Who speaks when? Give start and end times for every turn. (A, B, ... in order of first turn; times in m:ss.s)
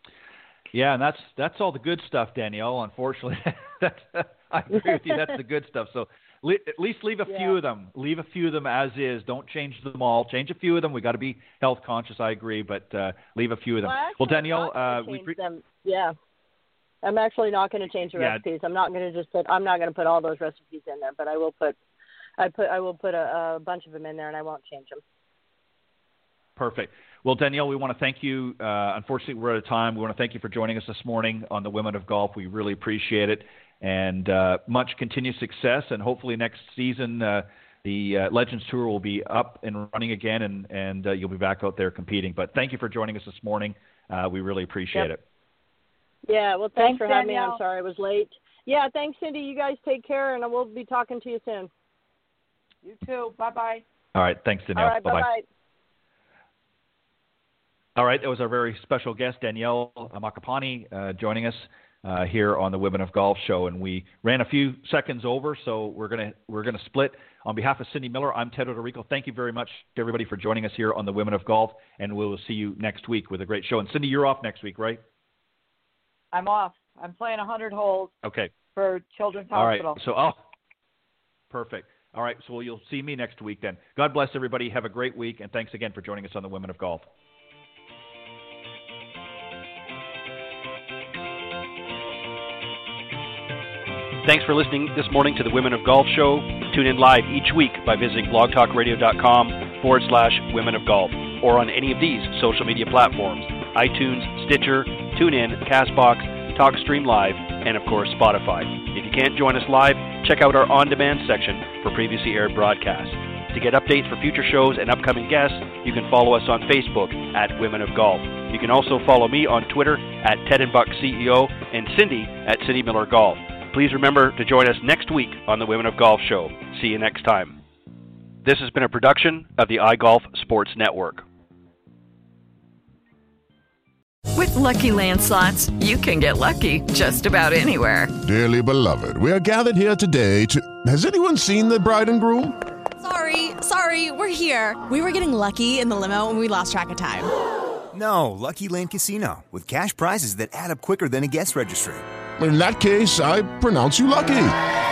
0:00.7-0:15.4 A
0:07.3-0:07.6 B
0:13.8-0:16.1 B
0:17.0-0:21.8 B
0:18.1-0:18.4 A
0:22.4-0:25.0 B
0:26.6-0:45.2 A
0:46.3-0:51.7 B
0:46.8-0:47.6 C
0:52.8-0:53.8 C
0:54.1-0:55.3 A
0:54.7-0:55.4 B
0:58.0-1:15.0 A
1:16.3-1:18.1 C
1:18.2-1:18.5 A
1:18.7-1:20.0 C
1:19.5-1:20.4 A
1:21.5-1:27.1 A
1:34.2-2:07.6 D
2:08.4-2:11.2 D
2:14.3-2:18.1 E
2:18.2-2:22.6 F
2:23.0-2:27.3 G
2:27.9-2:32.0 H
2:32.4-2:34.6 F